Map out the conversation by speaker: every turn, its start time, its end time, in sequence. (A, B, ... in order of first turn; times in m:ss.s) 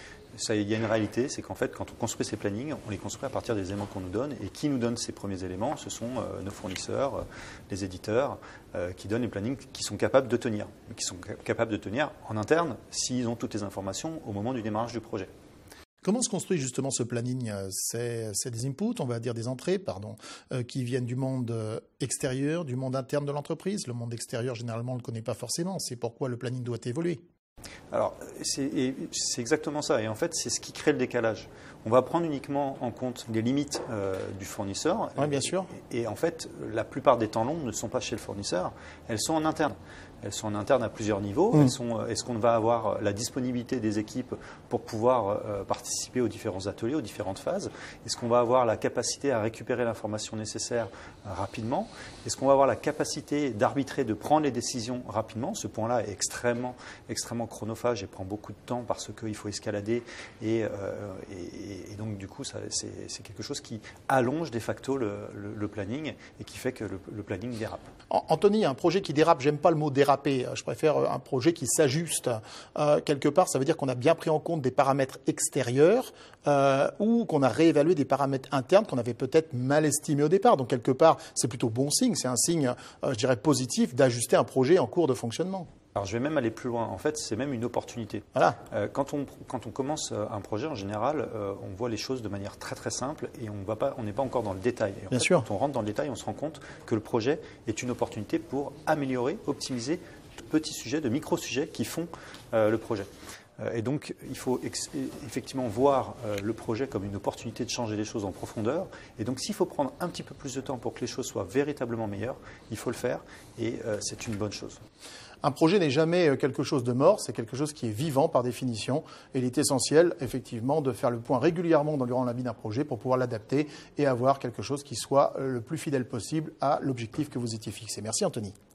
0:00.4-0:15.3 A
0:16.0-0:27.2 B
0:27.9-1:07.9 A
0:35.2-0:35.7 B
1:08.1-1:25.7 B
1:26.0-1:54.8 A
1:35.1-1:35.5 B
1:55.4-2:08.6 B